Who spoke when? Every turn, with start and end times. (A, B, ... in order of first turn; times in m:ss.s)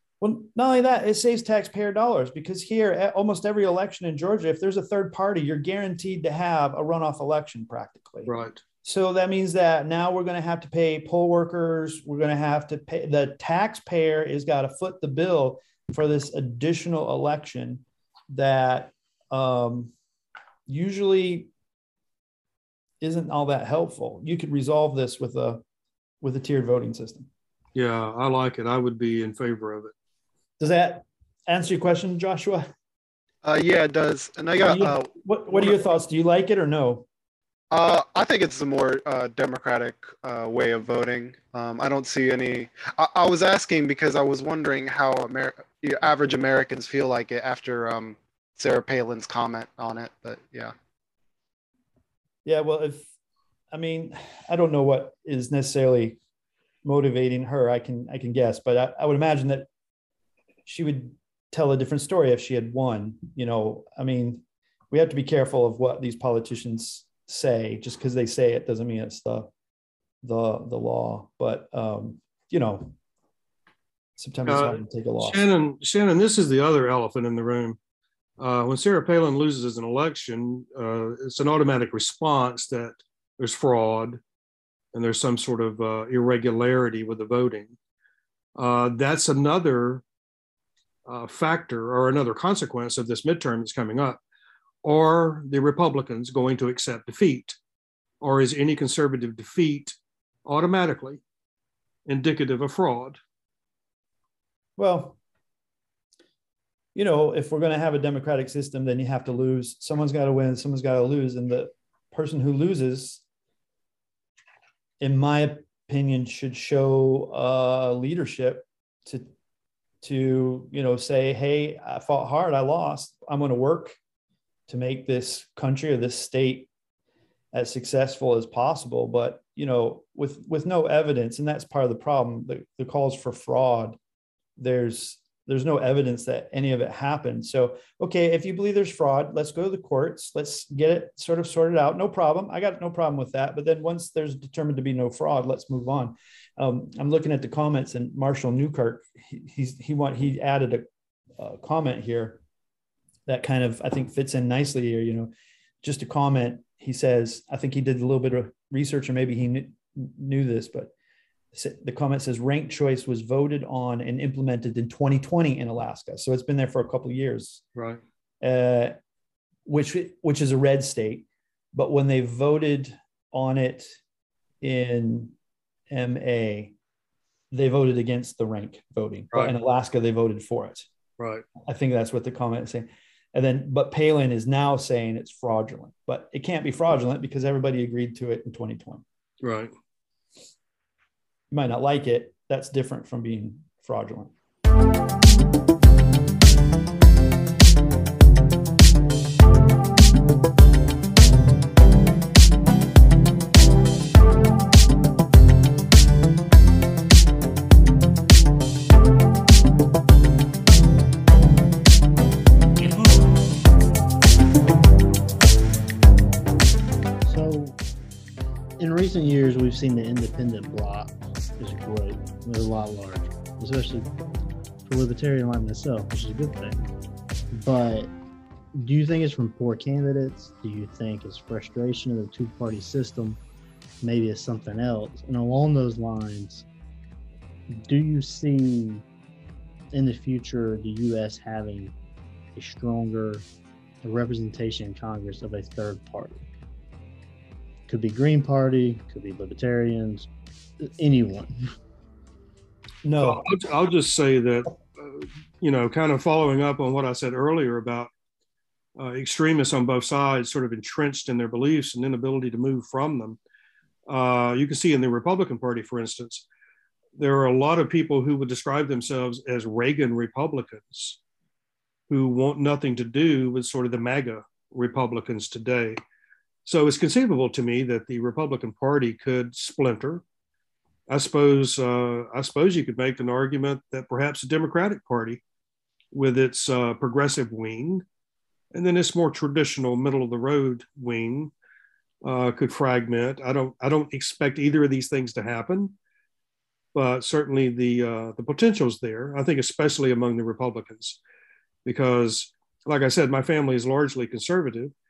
0:00.2-0:08.3 A
0:08.3-0:08.6 B
0:08.8-0:19.9 A
0:20.7-0:21.5 A
0:23.0-0:25.6 A
0:26.2-0:27.3 A
0:27.8-0:29.9 B
0:30.6-0:32.7 A
0:33.4-0:35.8 C
0:34.6-0:37.1 A
0:37.7-0:50.7 C
0:52.4-0:53.1 A
0:53.7-0:56.2 A
0:56.8-0:59.7 A
1:00.7-1:09.5 A
1:10.2-1:13.0 A
1:14.2-1:15.5 A
1:14.5-1:17.8 B
1:18.4-1:24.2 B
1:24.9-1:27.7 B
1:28.6-1:30.0 B
1:31.1-1:34.2 B
1:34.8-1:37.6 B
1:38.2-1:41.2 B
1:42.1-1:43.2 B
1:44.8-1:45.2 A
1:47.0-1:53.2 A
1:55.0-1:59.3 A
2:00.0-2:04.0 A
2:04.7-2:06.7 A
2:07.5-2:14.0 A
2:14.6-2:30.9 A
2:31.4-2:32.4 A
2:33.3-2:35.3 A
2:35.8-2:40.9 A
2:41.5-2:47.6 A
2:47.8-2:48.0 B
2:48.4-2:49.0 A
2:49.7-2:54.0 A
2:54.6-2:55.3 A
2:55.9-2:56.8 A
2:57.5-3:00.9 A
3:01.2-3:01.5 B
3:01.6-3:09.0 A
3:09.4-3:09.7 B
3:11.5-3:14.3 A
3:37.2-3:37.8 D
3:38.8-3:44.1 D
3:44.9-3:46.9 D
3:47.5-3:48.1 D
3:48.7-3:53.4 D
3:54.0-3:56.7 D
3:57.7-3:59.0 D
3:59.9-4:01.9 D
4:02.6-4:03.4 D
4:04.0-4:06.4 D
4:07.9-4:10.3 D
4:10.8-4:11.5 D
4:13.0-4:13.5 A
4:13.2-4:18.1 B
4:19.0-4:23.4 B
4:24.1-4:26.5 B
4:27.2-4:31.2 B
4:32.1-4:36.0 B
4:36.7-4:40.2 B
4:41.1-4:45.4 B
4:46.1-4:48.0 B
4:48.7-4:51.5 B
4:52.2-4:56.0 B
4:56.9-5:01.2 B
5:01.8-5:04.9 B